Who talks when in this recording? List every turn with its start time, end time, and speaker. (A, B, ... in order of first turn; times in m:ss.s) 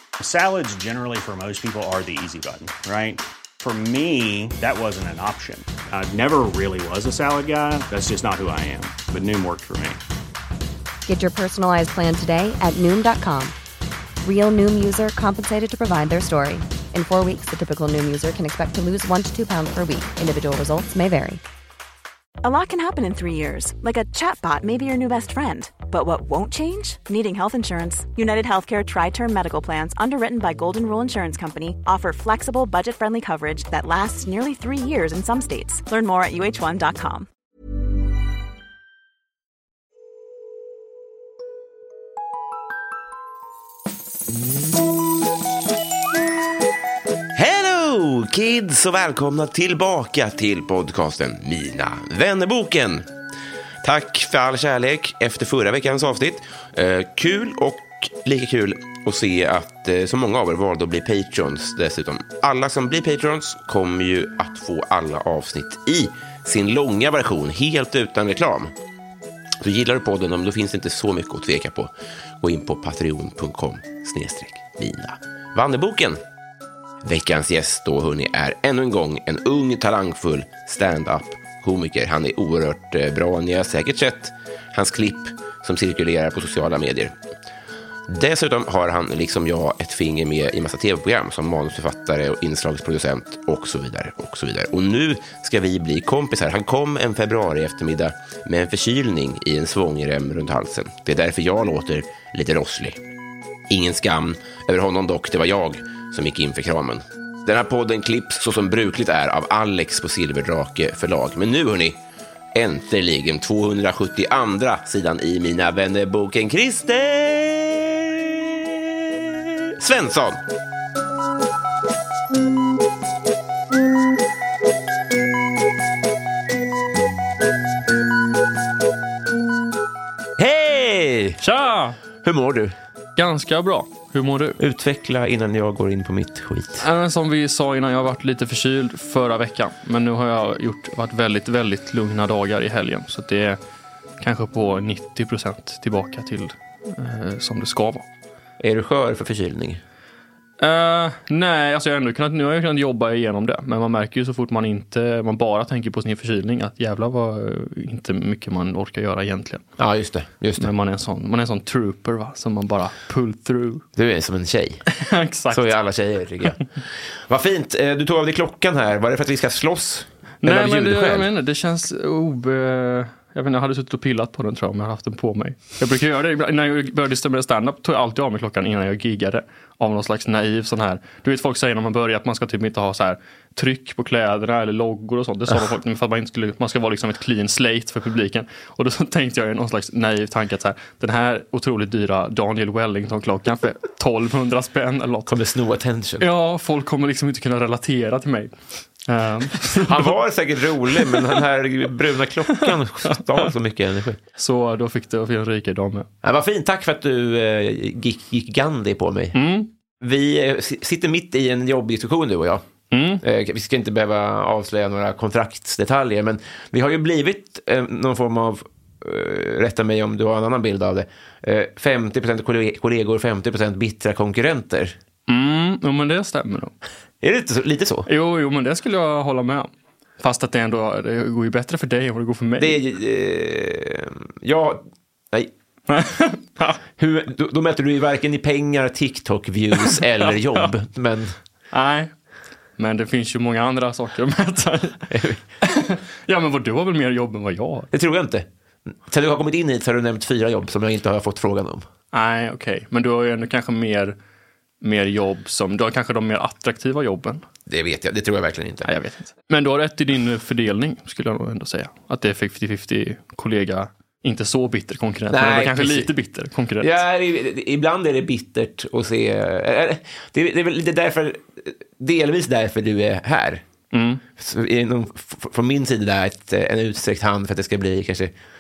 0:00.2-0:10.0 A
0:11.1-0:13.5 B
0:14.2-0:21.4 B
0:22.4-0:37.3 C
0:47.3-0:53.1 D
0:53.8-1:08.7 D
1:09.6-1:16.2 D
1:17.0-1:27.1 D
1:28.1-1:43.0 D
1:43.7-1:52.0 D
1:52.5-2:00.4 D
2:10.4-2:11.4 D
2:11.4-2:12.0 E
2:12.2-2:12.7 D
2:13.2-2:14.6 E
2:14.6-2:16.8 D
2:16.8-2:23.6 E
2:24.2-2:28.0 E
2:28.6-2:29.8 D
2:30.6-2:39.6 E
2:39.8-2:40.7 D
2:40.6-2:43.8 E
2:44.0-2:44.8 D
2:44.9-2:45.7 E
2:45.5-2:46.6 D
2:47.1-2:51.3 D
2:50.4-3:15.3 E
3:15.3-3:16.2 D
3:16.2-3:20.1 E
3:19.7-3:24.2 D
3:21.0-3:21.3 E
3:22.5-3:23.5 E
3:24.3-3:26.1 E
3:26.2-3:29.4 D
3:29.3-3:29.7 E
3:30.0-3:32.6 D
3:32.9-3:33.2 E
3:33.2-3:45.0 D
3:45.3-3:46.7 E
3:47.2-3:48.1 D
3:48.0-3:49.7 E
3:50.2-3:52.8 E
3:52.6-3:55.5 D
3:55.9-3:56.8 E
3:57.0-4:01.3 D
3:59.8-4:00.7 E
4:01.7-4:02.1 E
4:02.8-4:05.1 E
4:05.1-4:05.4 D
4:05.6-4:07.9 E
4:07.9-4:11.8 D
4:12.1-4:14.2 E
4:14.8-4:17.4 E
4:17.7-4:18.9 D
4:18.8-4:26.9 E
4:25.3-4:26.1 D
4:26.8-4:33.6 D
4:33.9-4:34.2 E
4:34.4-4:38.3 D